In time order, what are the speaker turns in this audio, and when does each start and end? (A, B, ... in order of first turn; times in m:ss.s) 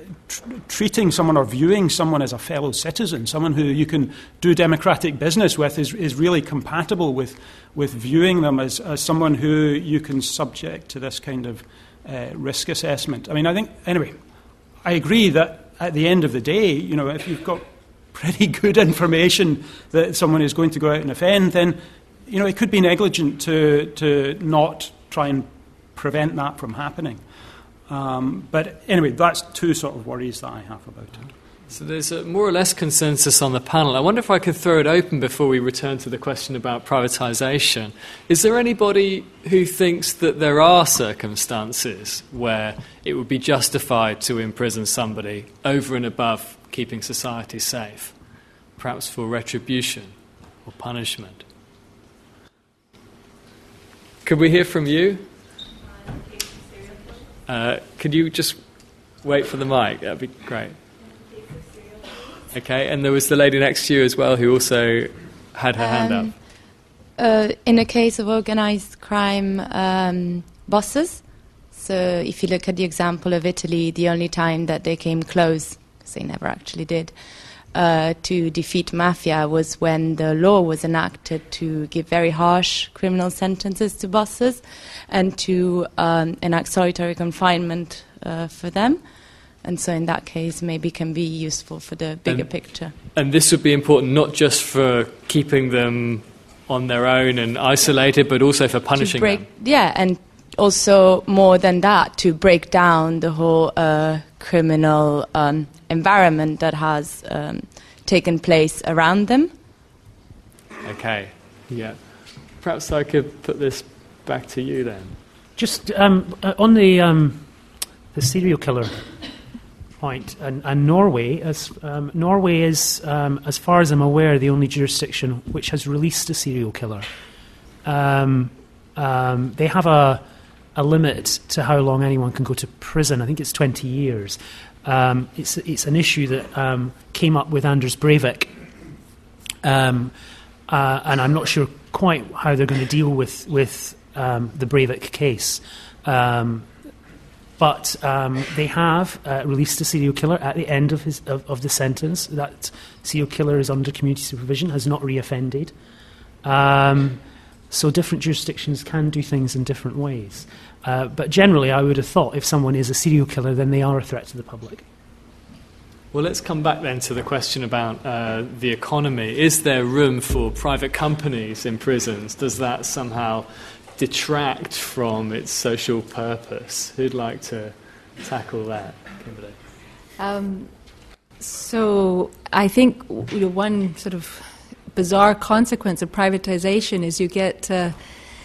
0:00.3-0:14.1 A
0:14.8-0:27.2 A
0:27.9-0:31.3 A
0:31.7-0:48.2 B
0:48.8-0:50.1 B
0:50.6-0:51.4 B
0:54.2-0:55.2 B
0:57.5-0:58.6 B
0:59.2-1:00.8 B
1:02.5-1:06.3 B
1:05.8-1:06.3 C
1:07.2-1:17.1 C
1:17.7-1:29.0 C
1:29.6-1:32.9 C
1:32.2-1:39.4 B
1:38.9-1:49.5 C
1:50.8-1:52.0 B
1:52.6-1:55.2 B
1:55.6-1:57.4 D
1:58.1-1:59.0 D
2:00.0-2:07.0 D
2:07.8-2:10.2 D
2:10.7-2:18.5 D
2:19.6-2:20.1 D
2:20.7-2:26.6 D
2:27.6-2:35.7 D
2:36.4-2:44.8 D
2:46.1-2:59.6 B
3:00.2-3:00.7 E
3:01.4-3:07.9 E